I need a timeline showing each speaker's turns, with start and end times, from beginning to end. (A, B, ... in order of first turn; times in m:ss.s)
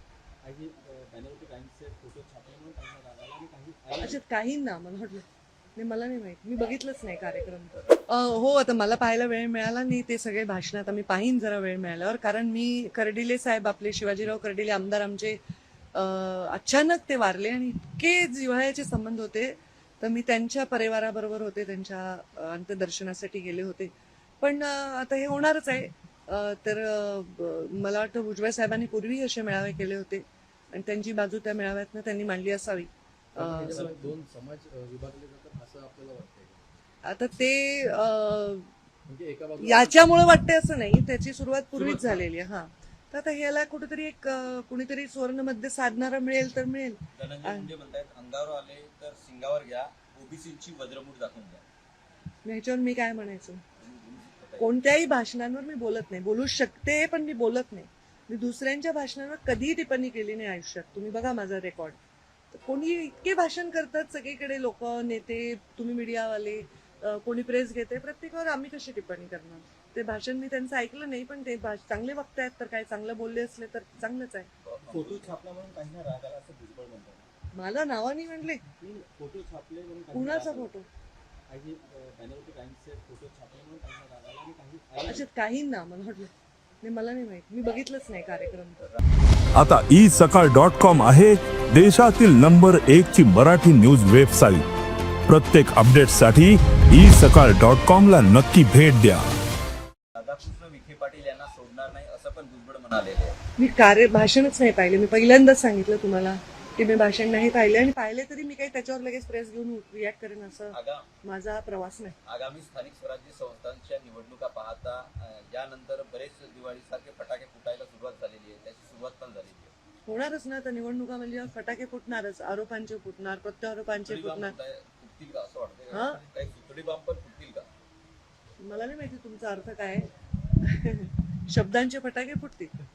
0:00.4-0:04.2 A
0:04.0-0:05.2 B
0:05.8-0:15.4 B
0:15.9-0:34.0 B
0:33.4-0:36.8 C
0:37.0-0:38.7 B
0:39.1-0:40.1 C
0:39.6-0:47.7 B
0:47.1-0:51.6 D
0:52.4-0:53.6 B
0:53.8-0:54.7 D
0:54.6-1:02.0 B
1:02.5-1:14.5 B
1:14.6-1:15.4 D
1:14.9-1:17.3 A
1:17.5-1:18.6 B
1:18.8-1:20.7 A
1:20.1-1:20.9 B
1:21.5-1:25.3 A
1:25.0-1:26.3 B
1:26.8-1:28.9 B
1:29.6-1:34.6 E
1:35.3-1:39.2 E
1:40.2-1:43.4 D
1:43.6-1:52.2 B
1:50.7-1:51.1 D
1:52.2-1:59.7 D
2:00.1-2:04.6 B
2:04.0-2:07.7 D
2:05.9-2:06.2 B
2:08.6-2:10.1 B
2:10.6-2:12.7 B